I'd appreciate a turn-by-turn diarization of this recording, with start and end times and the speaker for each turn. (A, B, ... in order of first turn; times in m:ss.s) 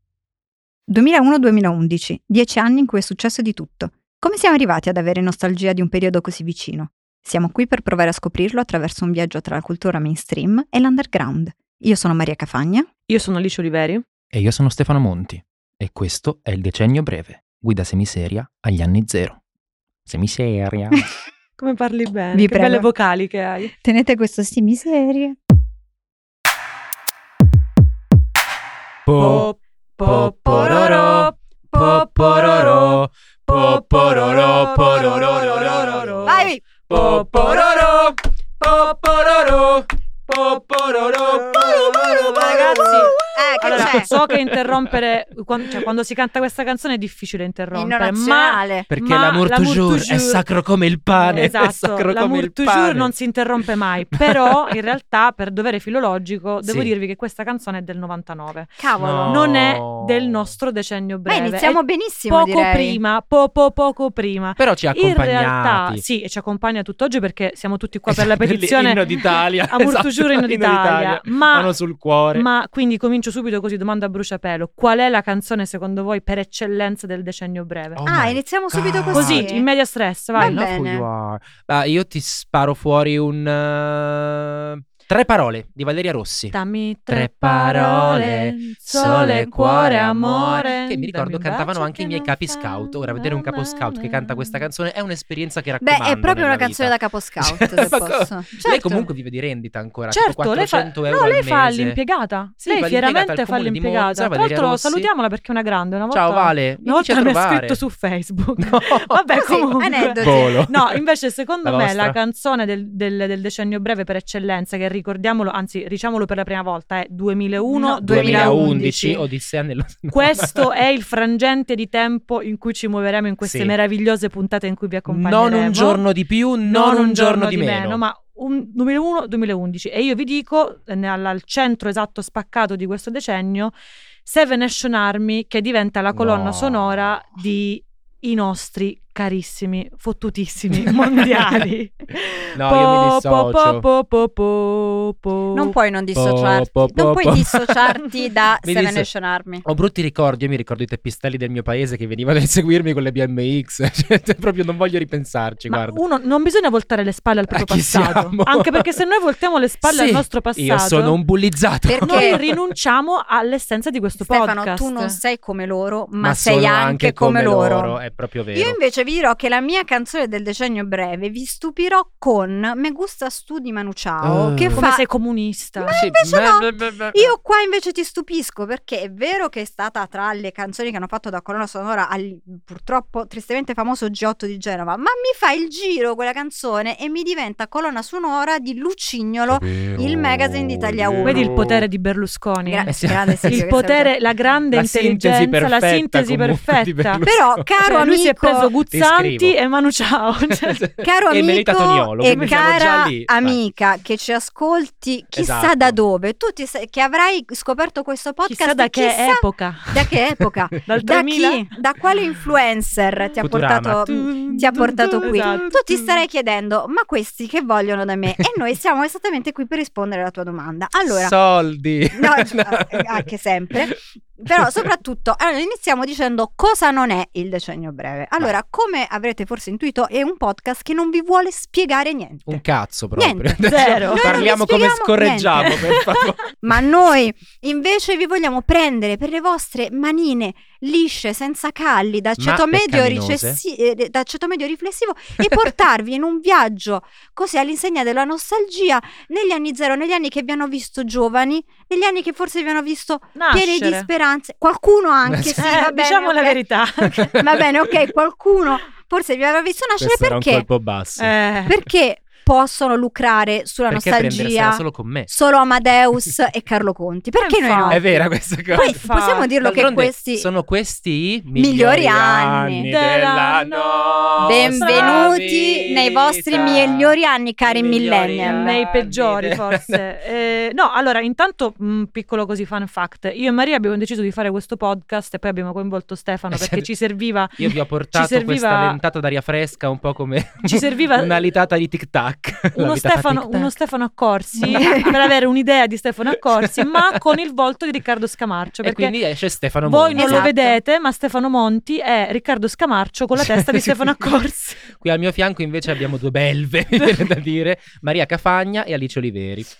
0:00.9-0:12.9 A
0:13.1-0:14.0 B
0:14.3-0:19.4 C
0:20.0-0:21.0 C
0:21.6-0:23.7 B
0:22.3-0:22.9 A
0:23.7-0:25.4 A
0:29.1-0:29.5 C
0:29.2-0:37.9 B
0:30.0-0:45.0 C
0:30.5-0:31.0 A
0:36.2-0:36.6 A
0:41.9-0:44.1 A
0:42.0-0:50.4 B
0:47.7-0:48.9 A
0:48.9-0:53.1 C
0:51.1-1:09.1 B
0:54.1-0:54.7 C
0:56.6-0:56.9 C
0:58.8-0:59.5 A
0:59.0-1:00.5 C
1:01.3-1:03.0 A
1:04.6-1:06.0 C
1:08.1-1:12.5 C
1:09.7-1:11.7 B
1:12.3-1:18.0 B
1:17.9-1:19.5 C
1:18.0-1:19.7 A
1:19.1-1:20.6 B
1:20.4-1:21.0 A
1:20.4-1:26.6 C
1:26.5-1:34.5 B
1:27.1-1:42.0 C
1:35.8-1:39.1 A
1:40.1-1:59.0 B
1:42.6-1:45.1 C
1:46.1-1:47.8 C
1:48.6-1:49.4 C
1:49.4-1:50.6 A
1:50.2-1:51.0 C
1:51.6-1:52.2 C
1:57.7-1:59.2 A
1:58.0-2:00.7 C
2:00.1-2:06.0 B
2:03.4-2:03.7 C
2:05.1-2:08.0 C
2:06.6-2:13.7 B
2:14.2-2:25.7 B
2:16.1-2:17.2 C
2:22.6-2:23.9 C
2:25.5-2:29.6 A
2:26.2-2:28.0 C
2:28.6-2:29.1 C
2:29.6-2:36.0 C
2:35.7-2:41.2 B
2:37.5-2:38.9 C
2:39.8-2:42.6 C
2:41.9-2:42.4 A
2:42.0-2:45.2 B
2:44.2-2:48.0 A
2:46.2-2:48.8 C
2:48.5-2:55.1 A
2:54.2-2:54.9 C
2:54.8-2:56.0 B
2:55.8-3:11.6 A
2:55.9-2:57.3 C
3:09.5-3:11.9 C
3:11.2-3:12.9 B
3:12.6-3:14.1 A
3:12.9-3:13.6 C
3:13.5-3:17.2 B
3:14.7-3:17.7 C
3:17.2-3:18.7 A
3:17.8-3:20.8 B
3:18.9-3:19.6 C
3:20.5-3:23.6 C
3:21.0-3:41.4 A
3:22.3-3:22.6 B
3:25.4-3:26.0 C
3:28.5-3:30.1 B
3:30.8-3:31.7 B
3:33.4-3:35.8 C
3:34.3-3:35.8 B
3:41.1-3:43.9 C
3:42.1-3:52.6 A
3:44.5-3:44.9 C
3:52.5-3:56.9 C
3:53.2-3:56.1 A
3:53.6-3:54.4 B
3:56.6-4:16.6 A
4:02.4-4:03.6 C
4:13.4-4:14.1 B
4:15.2-4:15.6 C
4:15.6-4:17.4 B
4:17.2-4:17.4 C
4:17.2-4:20.7 A
4:20.0-4:21.3 C
4:21.2-4:21.8 B
4:21.7-4:28.0 A
4:23.9-4:25.3 C
4:27.4-4:29.5 B
4:27.9-4:29.0 C
4:28.8-4:30.5 A
4:29.6-4:40.0 C
4:31.6-4:32.9 A
4:32.8-4:35.4 B
4:34.4-4:38.8 A
4:38.4-4:49.0 B
4:46.5-4:46.9 C
4:47.6-4:53.7 C
4:50.6-4:51.4 B
4:52.7-4:59.2 B
4:54.6-4:55.1 A
4:56.4-4:57.2 C
4:58.8-5:00.5 C
4:59.8-5:04.8 B
5:00.2-5:00.8 A
5:03.4-5:04.1 C
5:04.9-5:09.7 C